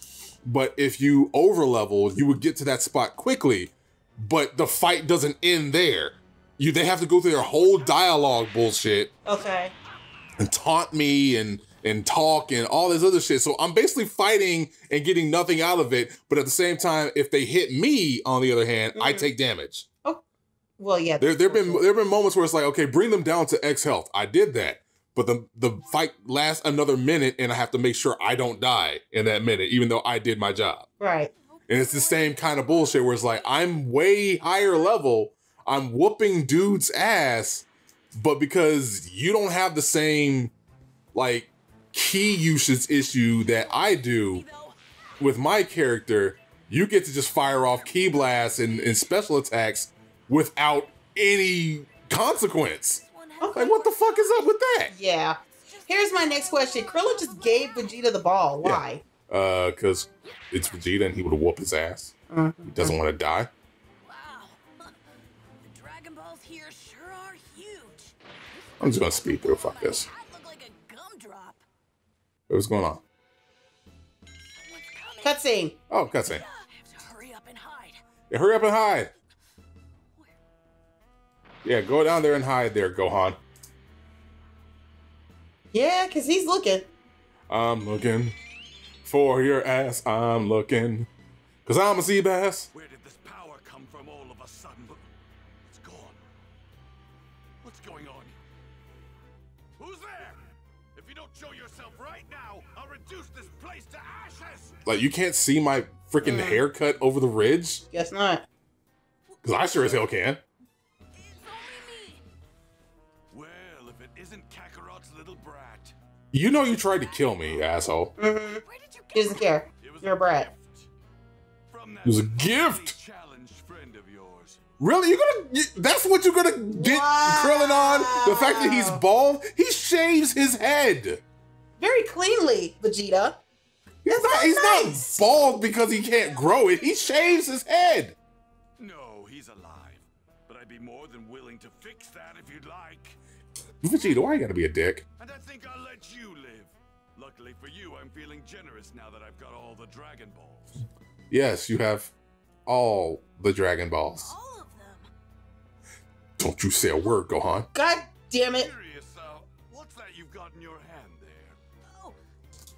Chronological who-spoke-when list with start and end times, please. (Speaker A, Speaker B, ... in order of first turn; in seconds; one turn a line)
Speaker A: 0.5-9.1
Speaker B: 9.3-9.7
Speaker A: 10.4-19.9
Speaker B: 18.9-19.3
Speaker B: 20.8-21.9
Speaker A: 21.2-30.9
Speaker B: 31.0-31.3
Speaker C: 31.5-33.6
Speaker A: 31.7-40.5
Speaker A: 41.1-44.4
Speaker C: 43.5-45.1
Speaker A: 45.2-53.0
Speaker C: 47.9-48.9
Speaker C: 53.0-54.6
Speaker B: 53.4-53.7
Speaker A: 53.5-54.9
Speaker B: 54.9-59.0
Speaker C: 55.5-58.0
Speaker A: 58.6-62.1
Speaker C: 60.4-60.8
Speaker B: 62.3-63.0
Speaker A: 62.7-63.5
Speaker C: 64.0-65.0
Speaker C: 65.6-71.6
Speaker A: 68.8-70.1
Speaker A: 72.5-73.0
Speaker C: 74.6-75.4
Speaker B: 75.2-75.8
Speaker A: 75.9-76.4
Speaker C: 76.0-78.0
Speaker A: 78.3-79.1
Speaker A: 81.6-83.4
Speaker B: 85.7-86.9
Speaker A: 87.5-88.4
Speaker A: 89.0-91.1
Speaker A: 91.7-92.7
Speaker D: 92.7-95.1
Speaker D: 95.6-96.2
Speaker D: 97.6-98.4
Speaker D: 99.8-100.4
Speaker D: 101.0-104.8
Speaker A: 104.9-107.8
Speaker B: 106.2-106.6
Speaker B: 107.9-108.5
Speaker A: 109.4-110.4
Speaker C: 111.2-112.2
Speaker D: 113.3-116.0
Speaker A: 116.3-118.1
Speaker C: 116.8-117.5
Speaker B: 118.2-120.5
Speaker C: 118.7-119.6
Speaker D: 119.8-120.9
Speaker D: 121.7-124.6
Speaker A: 122.0-123.0
Speaker A: 124.8-131.2
Speaker B: 126.7-129.0
Speaker B: 131.8-133.4
Speaker A: 134.1-138.2
Speaker B: 134.1-135.2
Speaker D: 138.8-143.2
Speaker A: 143.8-145.1
Speaker D: 145.2-150.8
Speaker A: 151.3-152.1
Speaker A: 152.7-154.3
Speaker C: 154.2-155.1
Speaker A: 156.4-157.7
Speaker B: 157.7-158.7
Speaker D: 158.5-161.6
Speaker C: 161.8-162.2